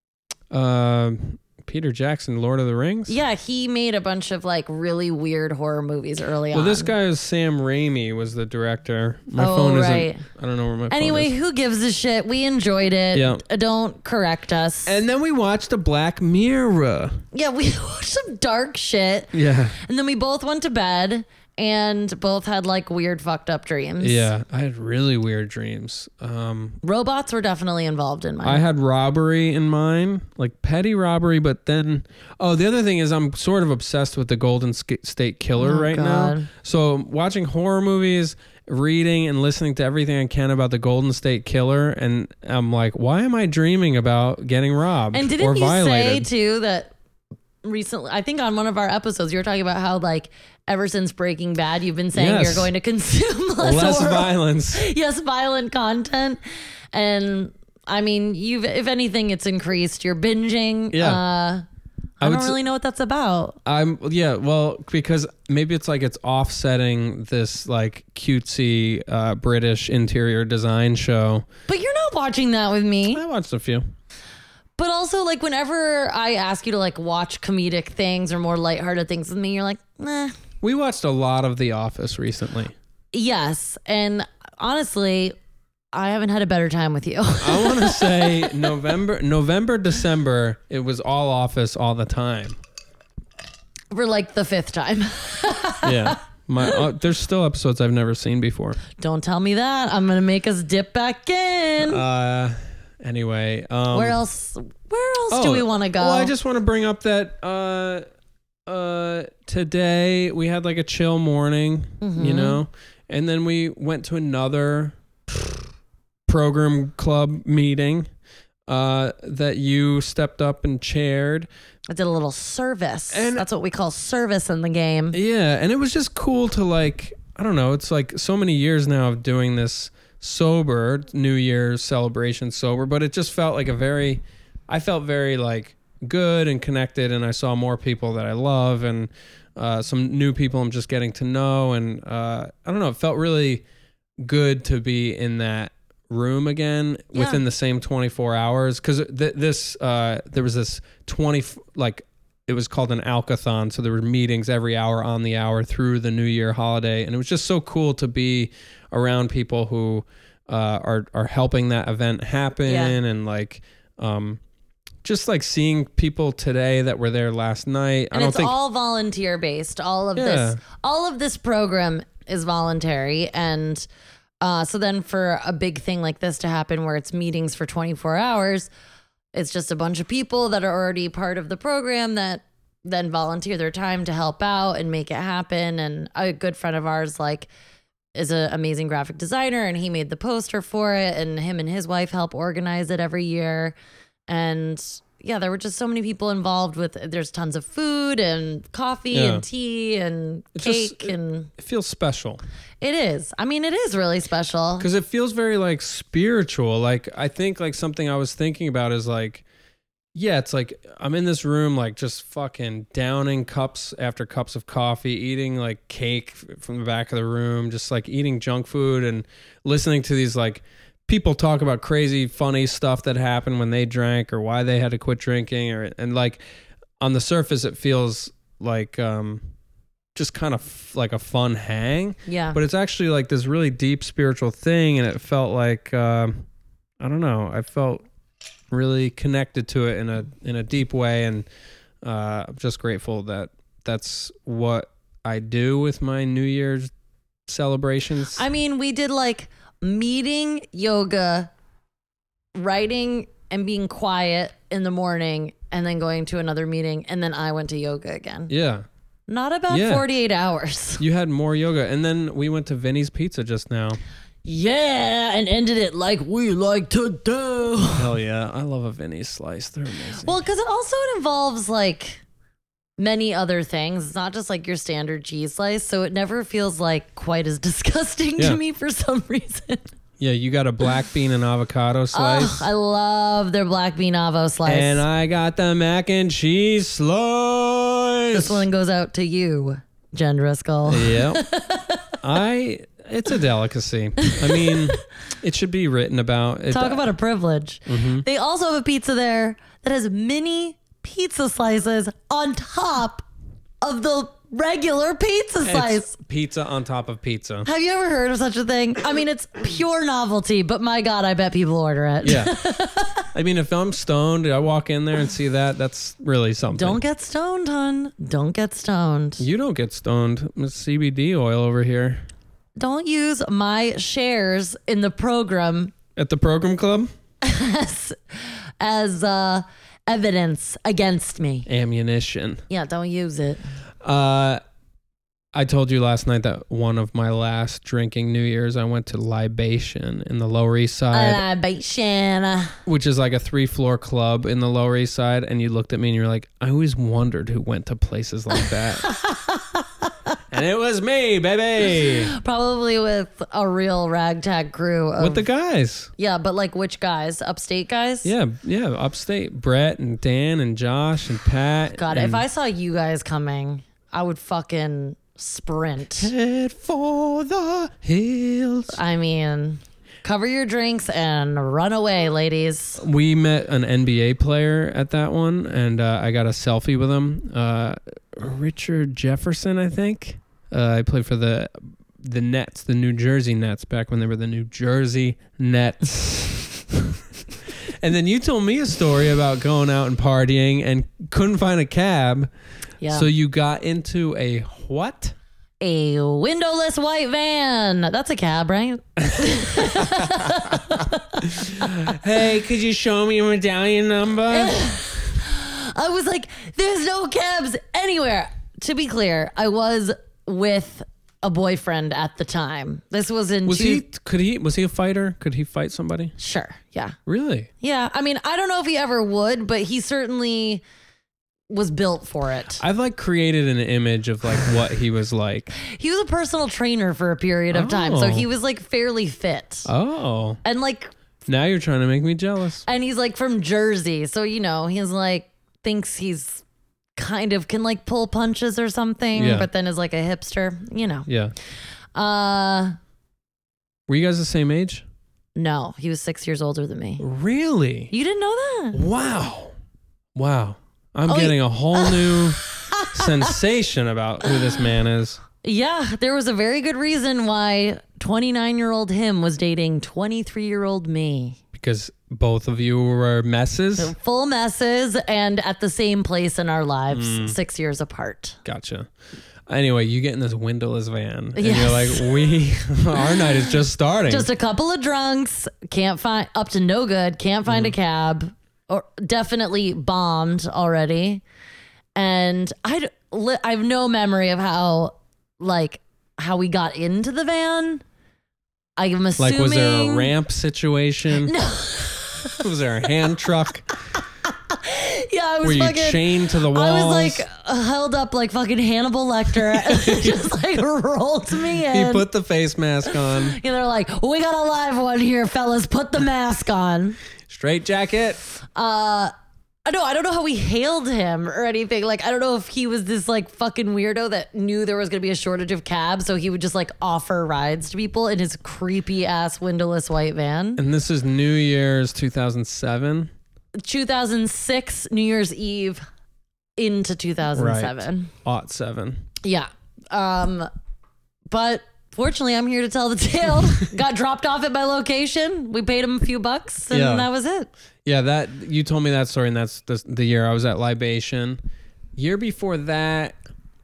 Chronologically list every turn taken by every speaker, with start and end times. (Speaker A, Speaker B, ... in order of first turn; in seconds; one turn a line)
Speaker A: 0.5-3.2
Speaker B: 3.1-7.0
Speaker A: 6.5-11.3
Speaker B: 9.4-10.3
Speaker B: 10.9-14.9
Speaker A: 13.1-13.4
Speaker A: 14.9-17.2
Speaker B: 17.3-24.3
Speaker A: 19.3-19.8
Speaker A: 24.0-26.8
Speaker B: 26.8-28.6
Speaker A: 28.4-46.3
Speaker B: 35.6-36.5
Speaker B: 45.1-46.9
Speaker B: 47.6-56.4
Speaker A: 52.1-52.7
Speaker A: 53.6-54.9
Speaker B: 56.9-61.6
Speaker A: 60.9-61.2
Speaker A: 62.2-62.6
Speaker B: 62.2-63.6
Speaker A: 63.6-71.5
Speaker B: 71.7-73.2
Speaker A: 73.1-73.8
Speaker B: 74.8-80.3
Speaker A: 80.6-82.8
Speaker B: 83.1-85.3
Speaker B: 85.9-88.5
Speaker A: 87.4-92.6
Speaker B: 93.9-96.8
Speaker A: 95.8-98.8
Speaker B: 99.0-102.0
Speaker A: 101.8-104.2
Speaker B: 103.9-106.3
Speaker A: 105.3-108.0
Speaker A: 108.7-115.5
Speaker B: 112.0-112.6
Speaker A: 116.3-118.1
Speaker A: 118.7-121.5
Speaker B: 121.9-125.2
Speaker A: 123.1-123.5
Speaker A: 125.1-143.6
Speaker A: 144.2-164.4
Speaker B: 147.1-147.4
Speaker B: 162.7-163.0
Speaker A: 165.0-168.5
Speaker B: 168.1-173.9
Speaker A: 170.2-170.6
Speaker B: 174.4-178.7
Speaker B: 179.3-187.5
Speaker B: 188.2-193.8
Speaker B: 194.3-201.5
Speaker A: 199.1-199.4
Speaker A: 200.6-202.4
Speaker B: 202.8-204.9
Speaker A: 204.8-209.4
Speaker A: 210.1-226.4
Speaker A: 227.0-229.4
Speaker A: 230.2-236.5
Speaker B: 232.3-232.6
Speaker A: 237.0-238.1
Speaker A: 238.7-241.5
Speaker A: 242.0-246.9
Speaker A: 247.5-248.4
Speaker B: 248.3-251.5
Speaker B: 252.6-258.5
Speaker A: 258.5-258.9
Speaker B: 259.3-261.0
Speaker A: 259.7-260.1
Speaker A: 261.0-264.0
Speaker B: 264.4-268.2
Speaker A: 267.9-270.4
Speaker B: 270.2-272.2
Speaker B: 273.0-279.8
Speaker A: 280.2-282.7
Speaker B: 282.1-285.1
Speaker A: 284.7-288.7
Speaker B: 288.3-292.1
Speaker A: 290.9-291.4
Speaker A: 292.2-297.1
Speaker B: 294.2-295.0
Speaker B: 296.7-303.2
Speaker A: 297.9-298.3
Speaker B: 303.8-306.1
Speaker A: 305.6-307.7
Speaker B: 307.6-313.3
Speaker A: 312.2-312.5
Speaker A: 313.3-317.0
Speaker B: 316.7-319.5
Speaker A: 319.4-322.2
Speaker B: 322.8-325.9
Speaker A: 326.2-327.1
Speaker B: 327.4-331.7
Speaker A: 331.7-332.6
Speaker B: 332.7-333.6
Speaker A: 334.0-334.6
Speaker A: 335.6-341.4
Speaker B: 341.1-342.8
Speaker A: 342.9-349.0
Speaker B: 348.6-350.4
Speaker A: 350.5-352.3
Speaker B: 351.9-355.5
Speaker A: 355.2-356.1
Speaker B: 356.2-358.3
Speaker A: 358.2-362.4
Speaker B: 362.0-366.3
Speaker A: 366.2-369.0
Speaker B: 368.9-373.0
Speaker A: 373.0-387.2
Speaker A: 387.9-392.5
Speaker B: 393.0-393.3
Speaker A: 393.1-395.4
Speaker B: 395.8-401.9
Speaker A: 399.3-400.8
Speaker A: 401.4-404.9
Speaker B: 404.5-414.1
Speaker A: 413.7-416.3
Speaker B: 416.4-417.2
Speaker A: 417.3-417.7
Speaker B: 417.8-420.8
Speaker B: 421.7-422.8
Speaker A: 422.8-425.7
Speaker B: 425.8-429.9
Speaker A: 427.7-428.5
Speaker A: 429.9-430.6
Speaker B: 430.6-431.1
Speaker A: 431.5-432.9
Speaker B: 432.9-436.6
Speaker B: 437.2-441.3
Speaker A: 439.4-439.7
Speaker A: 441.3-441.5
Speaker B: 442.1-443.0
Speaker A: 444.1-445.0
Speaker B: 445.6-447.3
Speaker A: 447.2-448.1
Speaker B: 448.1-449.0
Speaker A: 448.9-449.7
Speaker A: 450.4-452.6
Speaker B: 451.3-453.5
Speaker A: 453.1-455.4
Speaker B: 455.6-461.6
Speaker A: 461.7-464.1
Speaker B: 464.0-468.6
Speaker A: 467.1-467.6
Speaker A: 468.6-469.1
Speaker A: 469.7-474.5
Speaker B: 471.6-472.5
Speaker B: 473.3-473.6
Speaker B: 474.3-481.4
Speaker A: 477.7-477.9
Speaker B: 482.2-488.0
Speaker B: 489.0-490.3
Speaker A: 489.4-491.5
Speaker B: 491.4-492.6
Speaker A: 492.5-493.9
Speaker B: 494.2-502.3
Speaker A: 495.6-497.4
Speaker A: 499.8-500.5
Speaker A: 501.9-503.6
Speaker B: 503.1-507.2
Speaker A: 507.5-508.4
Speaker B: 508.8-509.3
Speaker B: 509.9-520.8
Speaker A: 520.8-523.3
Speaker B: 523.8-526.0
Speaker B: 526.8-528.3
Speaker A: 527.5-529.2
Speaker B: 529.4-530.7
Speaker B: 531.5-537.7
Speaker A: 536.9-537.3
Speaker A: 538.0-541.6
Speaker A: 542.2-543.4